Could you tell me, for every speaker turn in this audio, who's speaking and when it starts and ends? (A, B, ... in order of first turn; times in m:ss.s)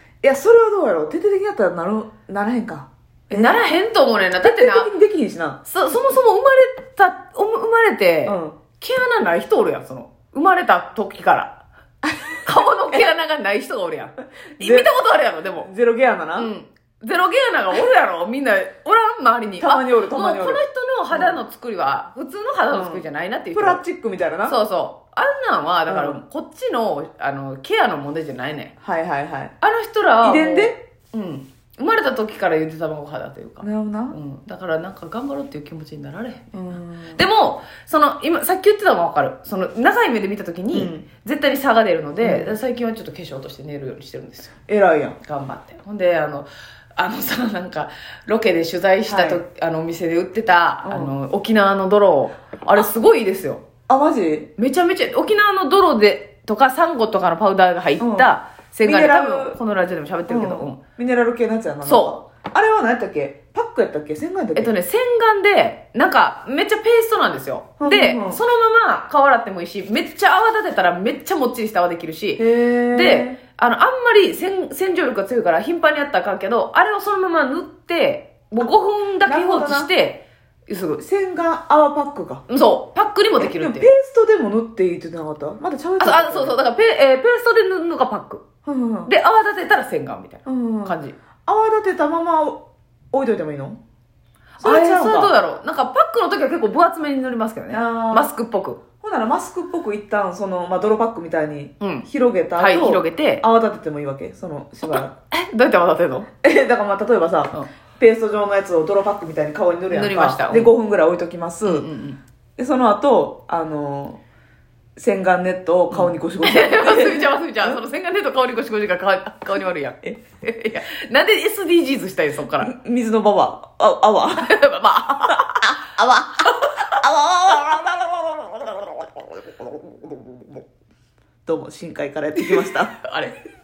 0:00.2-0:03.6 A
0:03.3-0:04.9 B
0:04.4-0:05.6 A
0:05.6-0:11.6 B
0:08.2-0:08.6 A
0:12.0-0:13.1 A
0:12.4-0:15.7 B
0:14.6-0:14.9 A
0:15.5-0:16.5 A
0:16.4-0:23.8 B
0:19.6-0:20.6 A
0:21.1-0:21.4 A
0:22.7-0:24.6 A
0:24.4-0:28.7 B
0:25.9-0:26.2 A
0:28.8-0:29.5 A
0:29.6-0:44.5 B
0:30.2-0:30.8 A
0:33.6-0:34.2 A
0:36.5-0:37.2 A
0:40.7-0:41.1 A
0:42.2-0:42.6 A
0:44.7-0:45.2 A
0:45.2-0:53.6 B
0:49.0-0:49.4 A
0:50.8-0:51.1 A
0:53.9-0:54.5 A
0:54.6-1:00.8 B
0:58.0-0:59.6 A
1:00.3-1:04.7 A
1:01.8-1:02.2 B
1:04.6-1:21.0 B
1:07.8-1:08.4 A
1:12.4-1:13.4 A
1:19.2-1:19.9 A
1:21.0-1:22.4 A
1:22.5-1:23.9 B
1:23.4-1:26.6 A
1:26.0-1:28.4 B
1:28.6-1:29.1 A
1:29.0-1:31.2 B
1:30.4-1:33.8 A
1:34.6-1:38.8 B
1:34.6-1:35.3 A
1:37.7-1:38.3 A
1:39.0-1:45.1 A
1:41.8-1:42.1 B
1:42.6-1:43.4 B
1:44.8-1:46.3 B
1:46.4-1:51.9 A
1:49.9-1:50.7 B
1:51.6-1:52.2 B
1:52.6-1:54.2 A
1:55.0-1:57.8 A
1:55.9-2:02.7 B
2:02.6-2:04.6 A
2:04.4-2:05.7 B
2:05.3-2:10.6 A
2:11.4-2:12.9 A
2:12.4-2:13.4 B